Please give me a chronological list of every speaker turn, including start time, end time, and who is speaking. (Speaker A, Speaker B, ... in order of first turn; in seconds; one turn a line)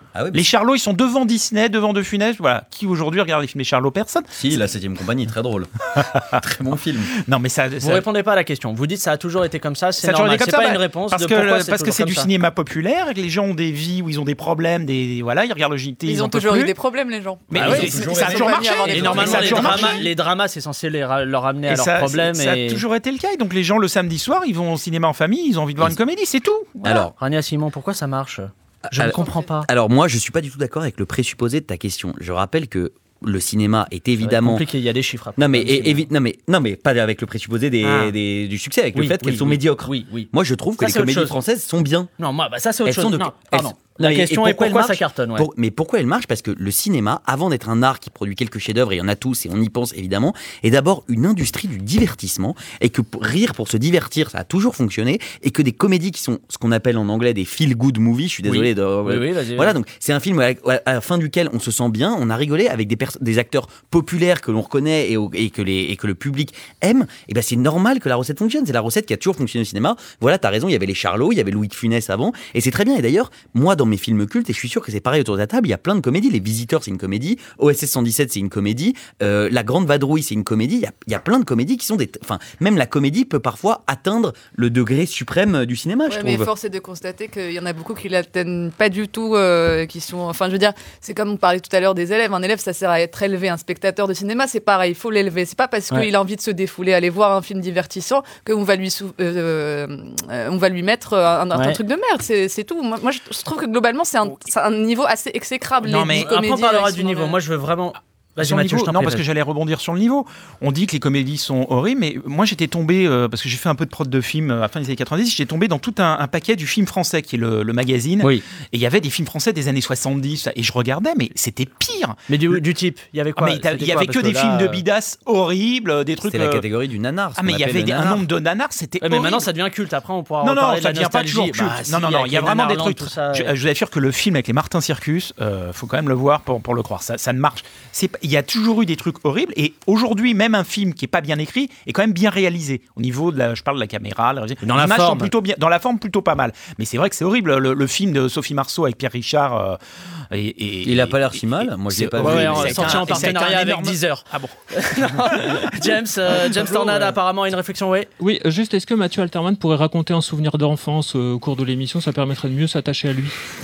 Speaker A: 0.1-0.5
Speaker B: 0.3-4.3
Speaker A: 4.3-7.1
Speaker B: 6.0-6.3
Speaker B: 7.2-8.1
Speaker C: 7.8-12.3
Speaker B: 10.0-16.7
Speaker D: 16.1-20.0
Speaker B: 17.5-20.1
Speaker A: 17.5-19.9
Speaker C: 17.6-18.1
Speaker C: 18.9-22.8
Speaker B: 21.7-26.8
Speaker A: 26.8-27.1
Speaker C: 26.9-29.7
Speaker A: 28.9-34.6
Speaker C: 34.2-36.0
Speaker A: 35.4-42.1
Speaker C: 37.8-38.1
Speaker C: 38.9-41.4
Speaker C: 42.2-45.5
Speaker A: 42.8-86.5
Speaker C: 58.5-59.8
Speaker D: 86.1-107.4
Speaker C: 101.5-101.8
Speaker B: 105.9-106.3
Speaker C: 105.9-109.2
Speaker B: 108.4-122.2
Speaker C: 122.3-124.8
Speaker B: 123.4-126.7
Speaker A: 126.2-128.2
Speaker B: 127.4-129.5
Speaker C: 129.0-133.5
Speaker B: 130.4-149.8
Speaker C: 144.6-145.3
Speaker B: 150.3-157.2
Speaker A: 150.8-153.4
Speaker C: 152.2-158.1
Speaker E: 158.2-163.4